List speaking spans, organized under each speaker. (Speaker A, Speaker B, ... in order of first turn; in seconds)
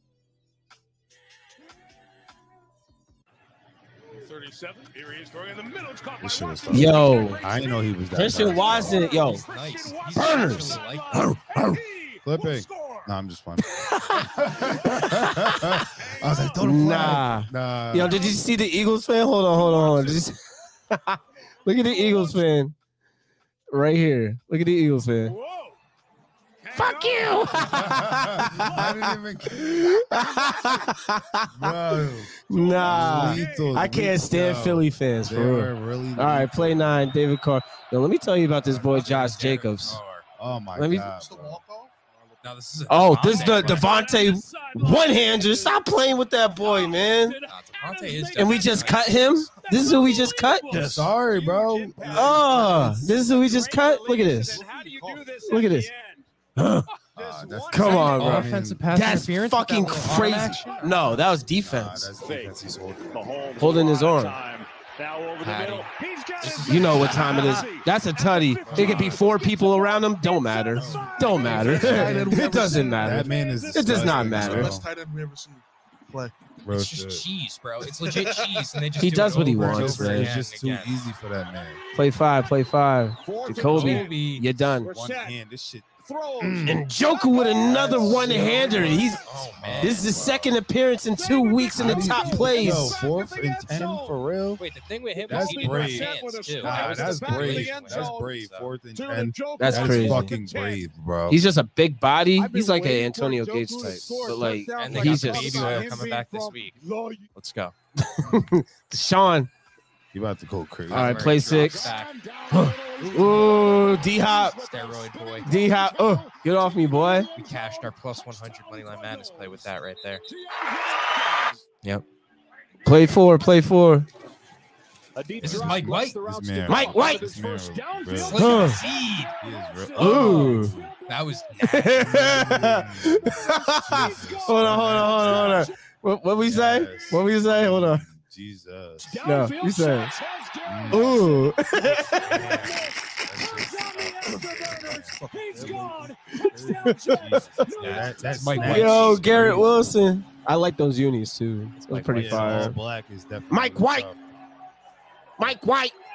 Speaker A: 4.1-7.8, 8.5-13.1, 14.6-15.3, 15.9-16.7, 18.0-18.4, 19.5-20.3, 21.8-22.4, 25.2-25.8, 26.6-29.1, 30.3-30.8, 32.5-33.9, 43.3-45.8, 46.5-56.3, 57.0-58.3, 60.6-60.9, 62.2-74.5, 83.2-84.3, 84.8-85.3, 86.0-89.3, 91.2-94.2, 95.2-98.3, 98.9-100.8, 102.3-107.3, 111.6-117.6, 118.7-119.6, 120.3-121.6, 125.1-131.1, 133.1-135.7, 139.0-149.0
Speaker B: 6.2-9.1, 12.2-18.3, 27.5-30.2, 31.5-37.1, 40.3-41.6, 50.7-52.5, 57.1-58.8, 61.0-63.4, 68.6-69.2, 70.7-74.8, 76.6-77.2, 79.4-81.8, 84.9-85.8, 86.4-86.9, 87.7-90.4, 91.8-94.6, 95.3-101.4, 110.1-111.4, 125.4-130.9, 131.9-135.7, 136.3-139.2, 140.6-145.2, 147.1-149.9, 152.1-154.2
Speaker C: 6.7-7.4, 8.1-9.4, 10.1-11.8, 13.6-15.9, 16.6-22.7, 23.7-25.4, 26.7-31.8, 32.4-40.0, 40.8-41.1, 42.9-47.4, 48.3-51.0, 52.0-54.6, 55.5-55.9, 56.5-56.9, 57.7-62.1, 63.5-64.4, 66.6-74.7, 79.0-80.3, 81.9-84.9, 86.6-89.2, 89.8-93.0, 99.6-100.3, 101.3-105.8, 108.0-109.5, 110.9-111.9, 112.5-114.6, 115.4-117.3, 122.8-124.1, 126.7-127.3, 128.3-128.8, 129.9-130.7, 131.6-138.0, 139.2-140.1, 140.9-142.6, 146.4-147.7, 148.5-152.8, 153.5-154.1, 155.4-155.9
Speaker D: 9.3-11.2, 38.6-40.2, 42.4-44.0, 47.4-49.3, 57.9-61.0, 65.4-67.7, 76.7-80.9, 83.6-84.5, 88.0-90.4, 94.6-98.7, 104.7-106.8, 107.3-107.7, 110.9-112.2, 114.6-115.5, 117.3-120.2, 125.4-126.2, 128.2-129.4, 130.0-132.6, 147.7-149.4, 151.8-152.6
Speaker E: 41.0-42.4, 52.0-52.3, 54.5-55.3, 71.3-73.2, 74.2-76.3, 78.0-79.2, 145.1-146.9